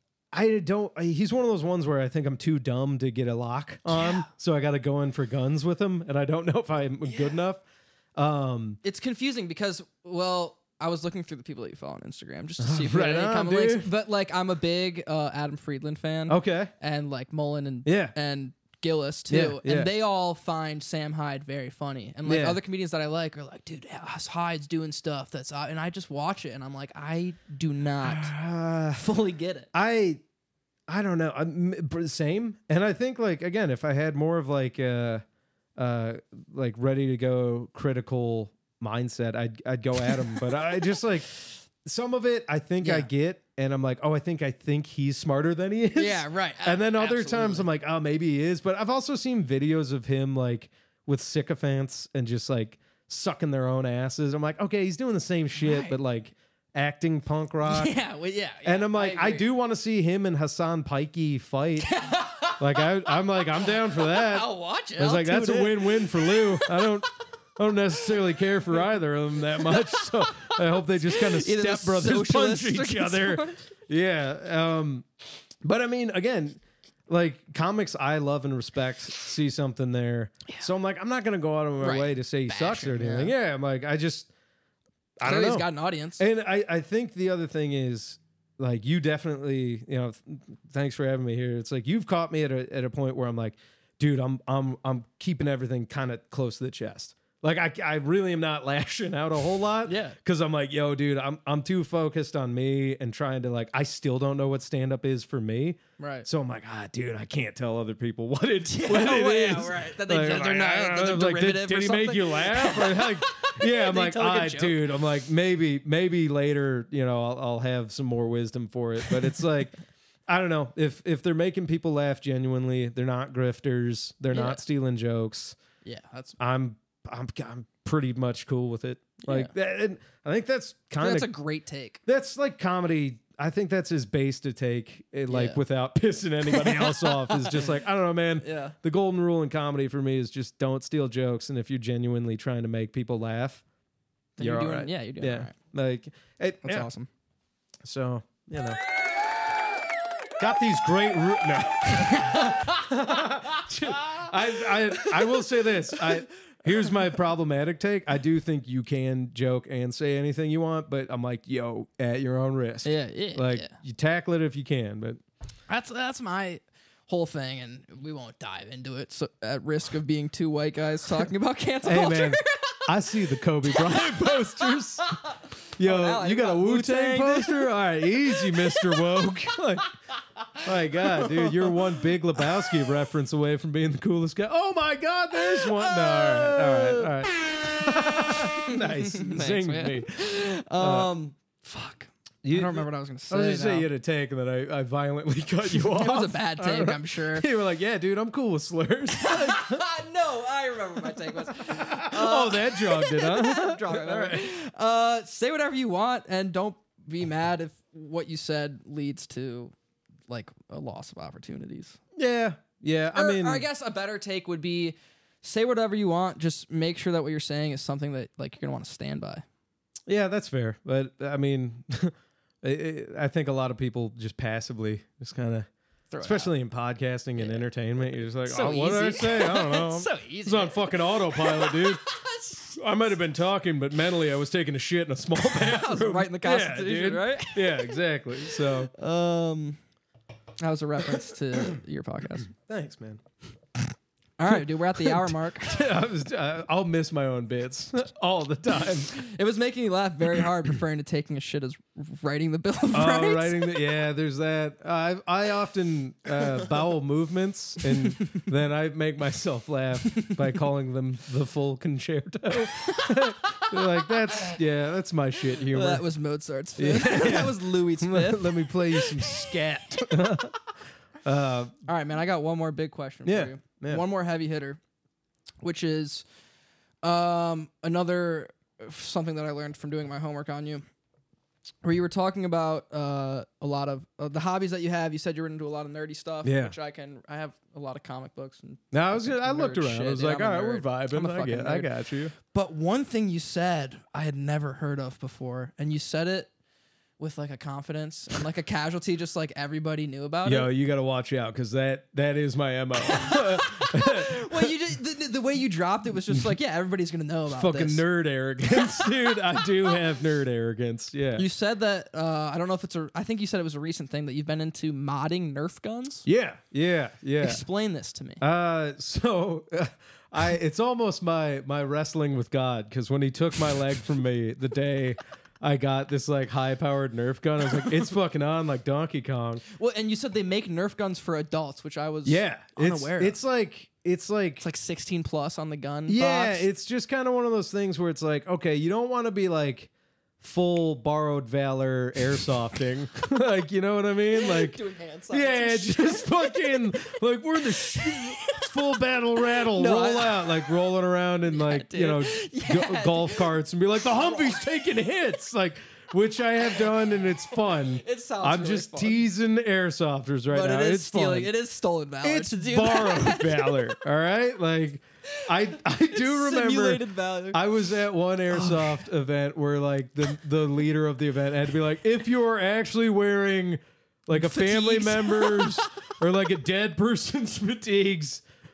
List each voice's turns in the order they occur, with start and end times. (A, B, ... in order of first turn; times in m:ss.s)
0:00.3-0:07.6 A
0:03.9-0:04.2 B
0:08.2-0:08.8 A
0:08.8-0:28.3 B
0:12.6-0:13.9 A
0:16.3-0:16.7 A
0:17.8-0:18.1 A
0:19.3-0:19.9 A
0:22.2-0:22.6 A
0:28.0-0:29.0 A
0:29.0-0:29.7 B
0:29.7-0:30.2 A
0:30.9-0:35.2 A
0:35.8-0:57.9 A
0:42.8-0:43.1 B
0:46.0-0:47.7 B
0:55.6-0:56.0 B
0:57.6-0:59.5 B
0:58.6-1:01.9 A
1:01.8-1:06.9 B
1:02.6-1:15.0 A
1:09.6-1:10.5 B
1:11.1-1:13.6 B
1:15.6-1:24.3 A
1:21.8-1:23.3 B
1:25.2-1:59.8 A
1:25.2-1:26.2 B
1:39.8-1:40.2 B
1:46.0-1:46.3 B
1:48.6-1:54.9 B
2:00.3-2:05.6 A
2:04.3-2:04.6 B
2:05.8-2:06.4 B
2:06.4-2:11.3 A
2:09.2-2:09.5 B
2:11.0-2:12.0 B
2:12.0-2:23.6 A
2:15.3-2:15.6 B
2:16.5-2:17.8 B
2:18.4-2:18.7 B
2:24.4-2:25.5 B
2:24.4-2:26.9 A
2:26.6-2:27.1 B
2:27.8-2:28.8 A
2:30.4-2:45.2 A
2:31.9-2:32.8 B
2:35.1-2:35.4 B
2:42.8-2:43.7 B
2:45.7-2:52.9 B
2:51.8-2:55.2 A
2:53.6-2:59.2 B
2:55.8-2:59.9 A
3:00.6-3:10.2 A
3:00.9-3:02.4 B
3:05.3-3:07.1 B
3:08.6-3:13.9 B
3:10.8-3:11.1 A
3:12.4-3:19.8 A
3:15.7-3:17.5 B
3:19.2-3:29.7 B
3:21.5-3:24.5 A
3:30.3-3:32.0 B
3:32.2-3:33.6 A
3:33.1-3:39.4 B
3:40.1-3:45.7 A
3:46.1-3:46.5 B
3:46.2-3:52.0 A
3:47.4-3:47.6 B
3:48.4-3:52.8 B
3:52.7-3:58.9 A
3:55.4-3:57.9 B
3:58.5-3:59.8 B
4:00.6-4:02.5 B
4:02.6-4:03.2 A
4:04.4-4:05.8 B
4:05.0-4:09.2 A
4:09.0-4:13.7 B
4:12.9-4:26.0 A
4:22.9-4:24.6 B
4:25.6-4:30.3 B
4:26.8-4:30.6 A
4:31.2-4:31.8 A
4:31.8-4:34.8 B
4:33.2-4:34.0 A
4:35.6-4:36.2 B
4:37.0-4:40.8 B
4:41.8-4:56.5 B
4:46.4-4:46.7 A
4:48.9-4:52.3 A
4:57.2-5:00.7 B
5:00.4-5:04.7 A
5:03.0-5:08.0 B
5:07.5-5:11.4 A
5:08.7-5:10.0 B
5:11.4-5:16.2 B
5:16.2-5:17.6 A
5:17.4-5:18.4 B
5:18.4-5:29.6 A
5:29.7-5:33.4 B
5:32.2-5:34.6 A
5:34.6-5:36.6 B
5:36.1-6:01.5 A
5:44.3-5:46.9 B
5:47.7-5:50.8 B
5:51.5-5:54.6 B
5:57.7-5:59.3 B
6:00.5-6:04.0 B
6:02.2-6:18.4 A
6:05.5-6:07.6 B
6:08.5-6:09.0 B
6:14.3-6:15.9 B